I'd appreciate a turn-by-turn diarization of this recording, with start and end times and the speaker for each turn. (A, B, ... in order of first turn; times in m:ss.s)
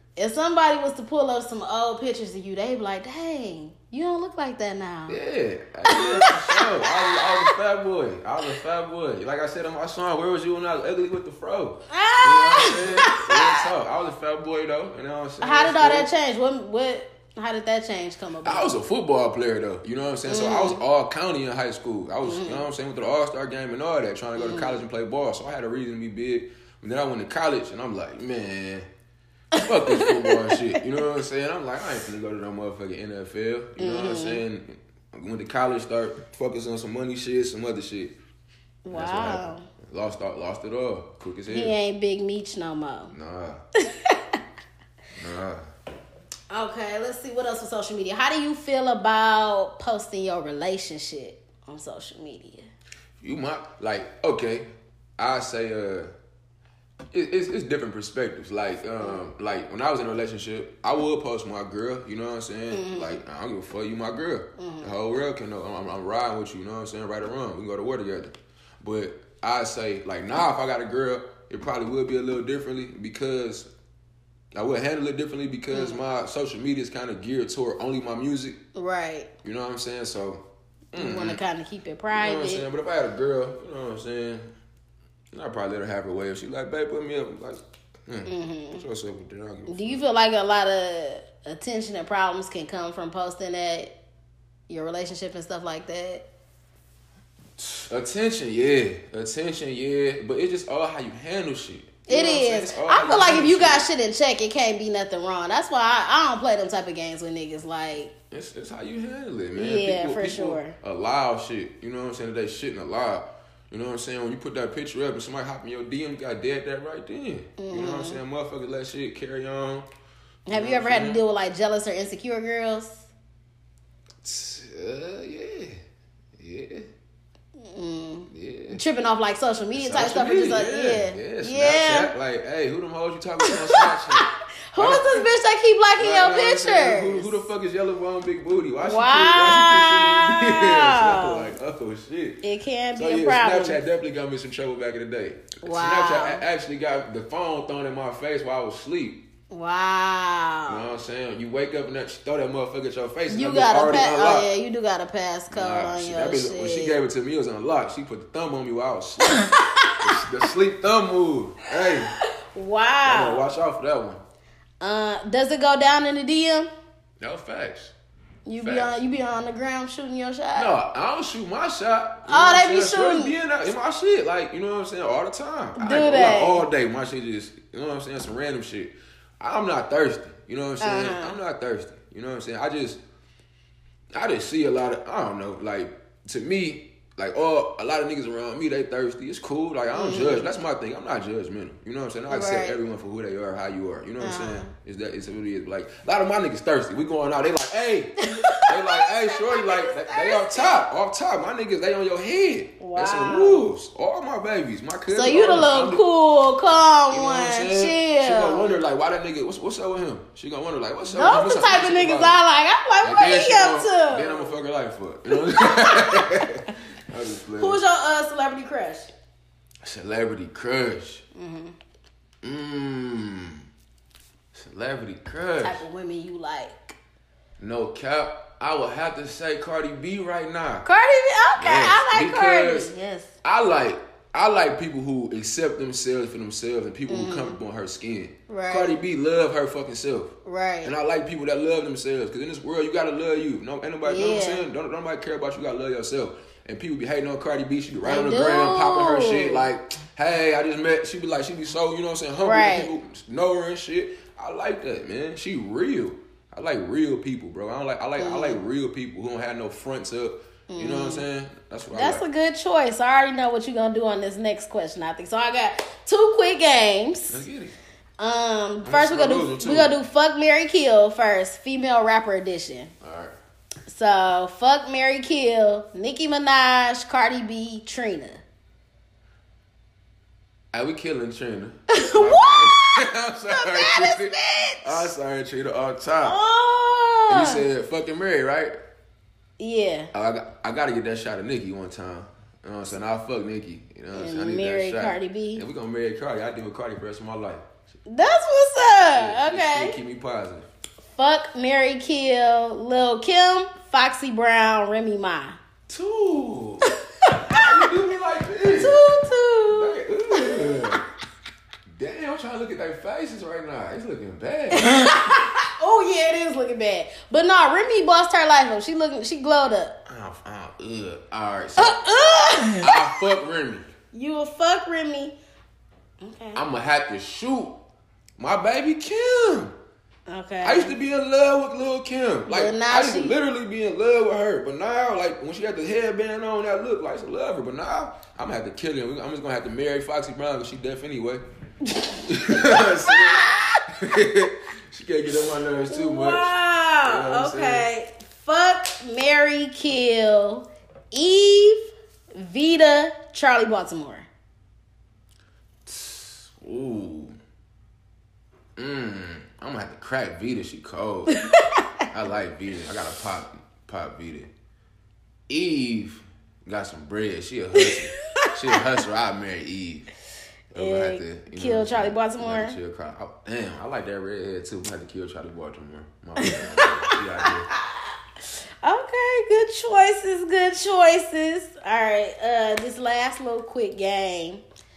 0:00.2-0:05.2 A
0:05.1-0:16.1 B
0:05.9-0:07.5 A
0:11.9-0:13.7 A
0:15.4-0:18.7 A
0:18.4-0:28.9 B
0:20.3-0:20.8 A
0:22.2-0:22.6 A
0:24.4-0:24.8 A
0:29.5-0:38.2 B
0:29.5-0:30.8 A
0:33.8-0:34.4 A
0:38.8-0:39.7 A
0:38.9-0:41.8 B
0:41.5-0:43.1 A
0:43.1-0:43.6 B
0:43.8-0:44.4 A
0:45.2-0:45.6 B
0:46.5-0:52.7 A
0:53.2-0:54.7 B
0:55.2-0:56.1 B
0:57.1-1:13.7 B
1:02.7-1:03.2 A
1:04.6-1:04.9 A
1:14.5-1:18.6 B
1:15.7-1:16.0 A
1:18.8-1:19.3 A
1:19.4-1:20.4 B
1:20.9-1:22.6 A
1:21.0-1:21.4 B
1:22.1-1:24.5 B
1:25.3-1:30.0 B
1:28.3-1:28.8 A
1:29.7-1:33.9 A
1:34.7-1:36.2 A
1:37.6-1:43.8 B
1:42.1-1:48.1 A
1:48.3-1:59.9 B
1:49.6-1:50.8 A
1:57.6-1:58.2 A
2:00.5-2:03.1 A
2:00.5-2:01.2 B
2:04.2-2:05.8 B
2:06.4-2:06.9 B
2:07.6-2:12.1 A
2:08.3-2:08.8 B
2:09.8-2:15.3 B
2:13.4-2:17.4 A
2:16.0-2:22.4 B
2:18.8-2:21.6 A
2:22.4-2:23.8 A
2:23.0-2:29.2 B
2:25.6-2:26.4 A
2:29.5-2:30.9 A
2:30.7-2:34.5 B
2:33.3-2:37.0 A
2:35.5-2:42.2 B
2:39.3-2:40.5 A
2:41.8-2:43.4 A
2:43.0-2:44.2 B
2:44.8-2:46.7 A
2:47.2-2:47.9 B
2:48.5-2:50.8 A
2:48.6-2:49.0 B
2:50.6-3:03.0 B
2:52.3-2:53.4 A
2:55.8-2:56.7 A
3:00.8-3:01.4 A
3:04.1-3:26.0 B
3:09.9-3:10.5 A
3:12.3-3:12.8 A
3:14.2-3:14.7 A
3:18.2-3:20.9 A
3:22.8-3:23.7 A
3:25.1-3:28.8 A
3:27.1-3:32.4 B
3:31.1-3:34.6 A
3:33.0-3:37.8 B
3:35.3-3:36.2 A
3:37.6-3:39.1 A
3:39.8-3:41.2 B
3:41.4-3:41.8 A
3:42.4-3:43.6 B
3:44.5-3:45.8 B
3:45.6-3:47.0 A
3:47.6-3:50.9 B
3:50.8-3:53.3 A
3:51.6-3:52.9 B
3:53.4-4:22.2 B
3:57.1-3:57.6 A
3:58.5-3:59.0 A
4:00.4-4:00.9 A
4:04.0-4:04.7 A
4:08.0-4:09.7 A
4:12.4-4:12.9 A
4:18.2-4:18.6 A
4:20.7-4:21.2 A
4:21.9-4:27.4 A
4:27.3-4:27.8 B
4:28.2-4:32.9 A
4:28.8-4:30.0 B
4:33.0-4:33.4 B
4:33.9-4:38.4 A
4:40.7-4:46.4 B
4:41.9-4:45.1 A
4:46.2-4:47.7 A
4:47.3-4:48.7 B
4:49.6-4:50.1 A
4:50.1-4:57.7 B
4:54.1-4:55.6 A
4:58.1-5:00.0 A
4:59.0-5:00.7 B
5:01.2-5:05.6 A
5:05.9-5:06.9 B
5:06.9-5:07.8 A
5:07.4-5:09.0 B
5:08.7-5:11.0 A
5:09.7-5:11.0 B
5:11.9-5:15.4 B
5:14.7-5:20.0 A
5:20.1-5:22.0 B
5:21.8-5:23.2 A
5:22.8-5:23.9 B
5:24.1-5:25.4 A
5:26.2-5:26.6 A
5:26.6-5:27.8 B
5:28.4-5:29.7 B
5:30.3-5:30.9 A
5:30.6-5:41.4 B
5:32.5-5:33.4 A
5:41.9-5:43.8 A
5:42.3-5:46.5 B
5:45.9-5:54.3 A
5:47.0-5:47.9 B
5:55.9-5:57.4 B
5:58.8-6:01.4 B
6:01.3-6:02.1 A
6:02.1-6:04.5 B
6:05.5-6:10.1 B
6:07.8-6:08.8 A
6:10.7-6:17.7 B
6:10.8-6:12.8 A
6:16.4-6:18.2 A
6:18.8-6:24.6 A